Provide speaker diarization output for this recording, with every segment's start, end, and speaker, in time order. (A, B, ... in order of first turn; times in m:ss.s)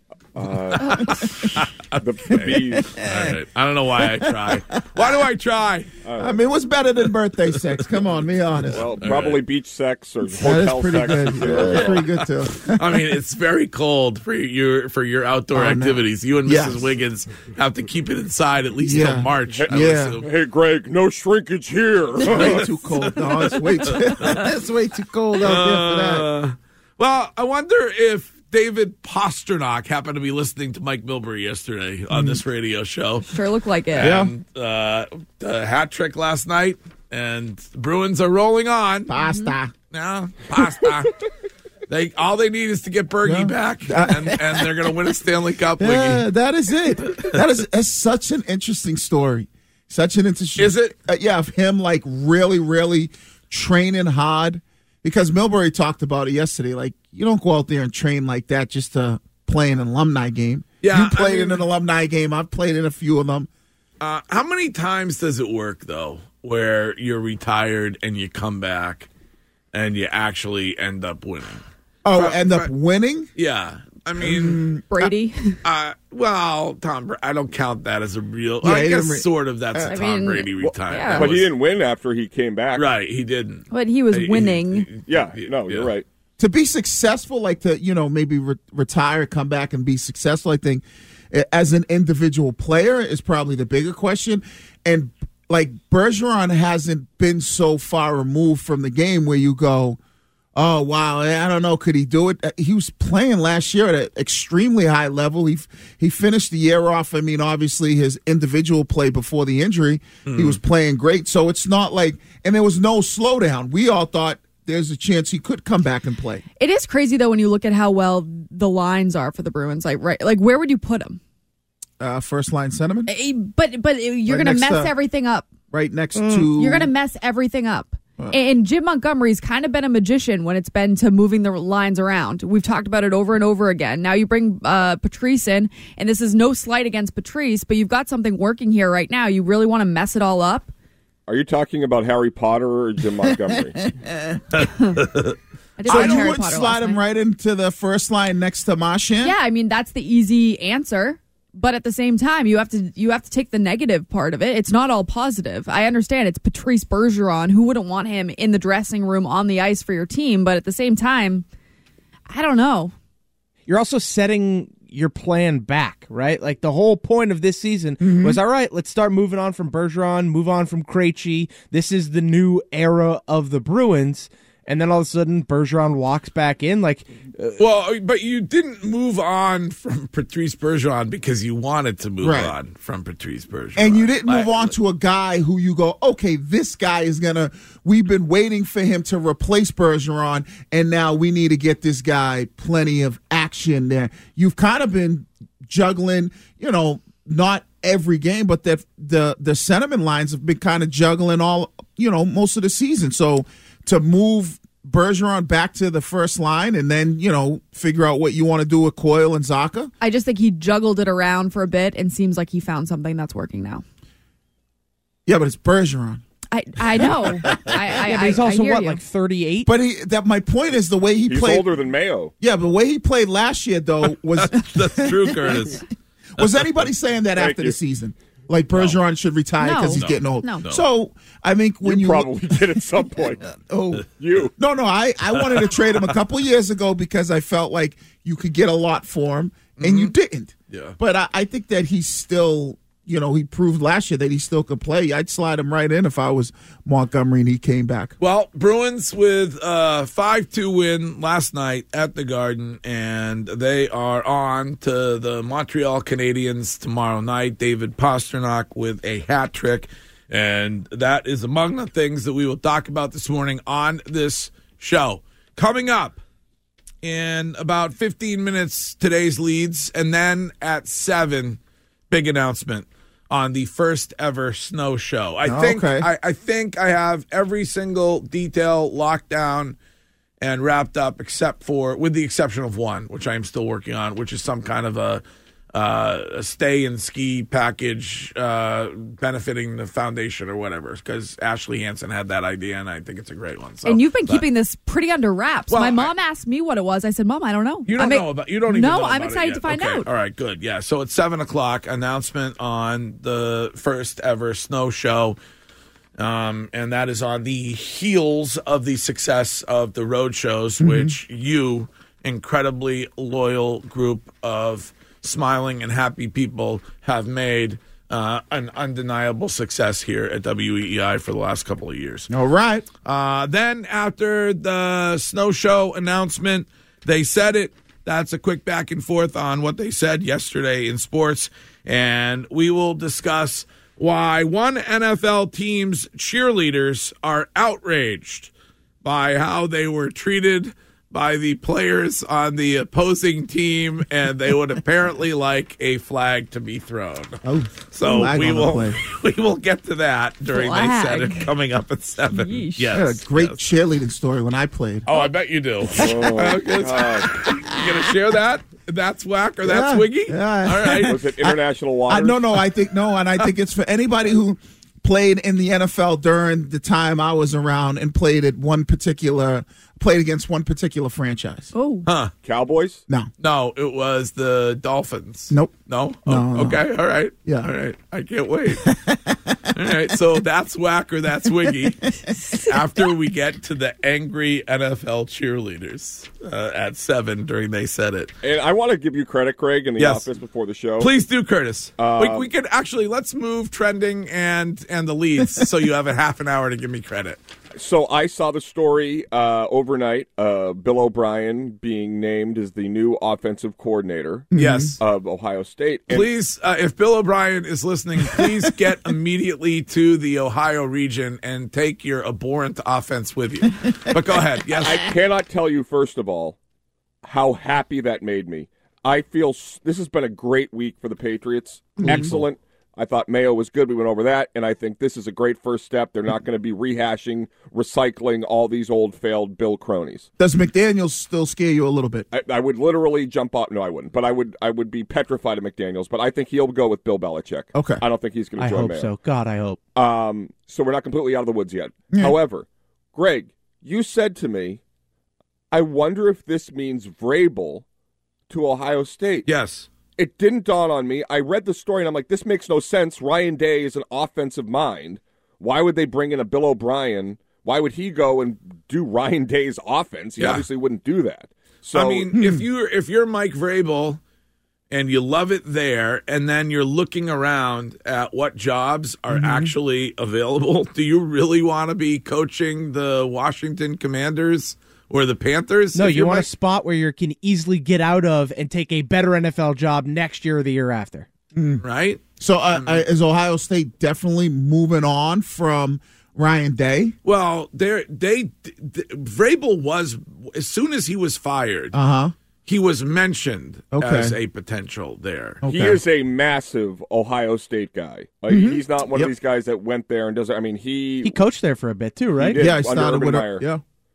0:00.4-0:01.1 A
0:00.7-0:05.9 B
0:00.8-0:01.6 C
0:02.0-0:02.9 A
0:02.3-0:03.3 C
0:04.0-0:04.6 C
0:06.0-0:06.5 A
0:06.2-0:08.9 C
0:08.7-0:12.0 A
0:09.0-0:09.4 B
0:10.2-0:13.0 C
0:11.5-0:12.0 B
0:12.7-0:20.3 B
0:15.5-0:16.9 C
0:18.8-0:20.2 C
0:19.5-0:22.6 A
0:22.2-0:22.6 B
0:22.2-0:26.3 C
0:23.2-0:24.5 B
0:25.4-0:33.2 B
0:32.1-0:32.4 C
0:33.2-0:34.2 D
0:33.9-0:39.1 B
0:34.0-0:34.3 C
0:39.1-0:39.7 C
0:39.9-0:41.1 B
0:41.9-0:46.2 B
0:43.2-0:44.8 C
0:45.8-1:03.5 C
0:50.6-0:50.9 B
1:00.8-1:01.6 B
1:04.0-1:09.1 B
1:09.7-1:11.6 B
1:12.0-1:13.3 C
1:12.1-1:12.7 B
1:13.4-1:14.6 B
1:14.2-1:15.1 C
1:14.9-1:15.5 D
1:15.6-1:21.5 B
1:18.6-1:20.0 C
1:19.9-1:21.3 D
1:20.6-1:22.8 A
1:22.8-1:25.9 B
1:23.7-1:24.9 D
1:25.1-1:26.0 A
1:26.4-1:40.0 C
1:40.5-1:56.4 C
1:50.2-1:50.6 B
1:56.6-2:01.2 D
2:02.0-2:03.1 C
2:03.1-2:05.5 D
2:04.3-2:04.9 C
2:05.7-2:06.9 C
2:06.5-2:20.7 D
2:21.3-2:23.8 A
2:24.6-2:25.3 B
2:25.8-2:27.0 D
2:25.8-2:29.3 C
2:25.9-2:26.3 B
2:29.2-2:41.4 D
2:42.3-2:42.9 D
2:43.7-2:57.1 E
2:48.0-2:48.4 C
2:57.4-3:04.7 B
3:02.2-3:02.5 C
3:03.8-3:29.9 C
3:30.0-3:33.8 D
3:35.2-3:36.2 C
3:36.5-3:39.0 D
3:36.9-3:37.8 C
3:38.0-3:39.7 E
3:39.6-3:41.7 C
3:41.2-3:42.3 A
3:42.4-3:45.8 C
3:44.0-3:45.8 B
3:46.4-3:54.0 C
3:46.4-3:46.7 B
3:47.4-3:47.8 A
3:48.7-3:49.0 B
3:49.6-3:50.6 D
3:50.0-3:50.8 B
3:51.8-3:53.5 A
3:54.1-3:54.5 A
3:54.6-4:08.1 C
3:59.8-4:00.1 B
4:00.7-4:01.0 B
4:08.2-4:26.2 B
4:27.0-4:31.6 B
4:32.1-4:39.8 B
4:35.4-4:36.1 C
4:40.4-4:45.2 B
4:45.7-4:54.4 B
4:53.8-5:00.1 D
4:55.7-4:56.1 B
4:57.9-5:05.4 B
5:06.2-5:22.3 B
5:10.8-5:11.1 C
5:22.3-5:22.9 C
5:23.0-5:38.5 B
5:39.0-5:47.4 B
5:47.4-5:49.0 C
5:47.9-5:53.6 B
5:50.5-5:51.5 D
5:52.3-5:52.9 D
5:52.9-5:55.3 C
5:55.0-6:01.2 B
5:55.9-5:57.3 A
5:57.4-5:58.0 C
5:59.6-6:11.7 C
6:01.0-6:02.4 A
6:11.7-6:12.1 D
6:12.0-6:12.3 B
6:12.4-6:13.0 A
6:13.4-6:18.9 B
6:15.5-6:16.8 C
6:18.8-6:19.5 C
6:19.7-6:28.3 B
6:28.4-6:31.1 A
6:30.0-6:30.2 B
6:31.0-6:37.4 B
6:32.0-6:32.5 A
6:37.7-6:44.5 A
6:44.5-6:44.9 C
6:44.5-6:45.0 B
6:45.0-6:46.3 A
6:46.1-6:55.1 B
6:54.8-6:56.6 A
6:57.2-7:10.3 A
7:02.0-7:02.4 C
7:10.4-7:12.3 C
7:12.3-7:19.1 A
7:17.7-7:18.0 C
7:18.6-7:19.8 E
7:19.9-7:24.8 A
7:22.1-7:22.4 C
7:25.7-7:27.8 A
7:28.5-7:29.5 A
7:29.4-7:29.9 B
7:30.2-7:42.3 A
7:40.4-7:40.6 B
7:41.9-7:44.2 B
7:42.3-7:42.6 C
7:44.9-7:56.5 B
7:49.3-7:49.7 C
7:55.9-8:01.3 E
8:01.5-8:01.8 C
8:01.8-8:02.2 B
8:02.4-8:07.1 C
8:02.7-8:03.0 B
8:07.2-8:12.0 B
8:11.9-8:12.3 C
8:12.6-8:15.6 B
8:13.9-8:14.3 C
8:15.6-8:16.0 C
8:15.7-8:21.4 A
8:18.5-8:19.3 C
8:21.2-8:22.6 E
8:22.4-8:23.6 A
8:22.5-8:23.8 C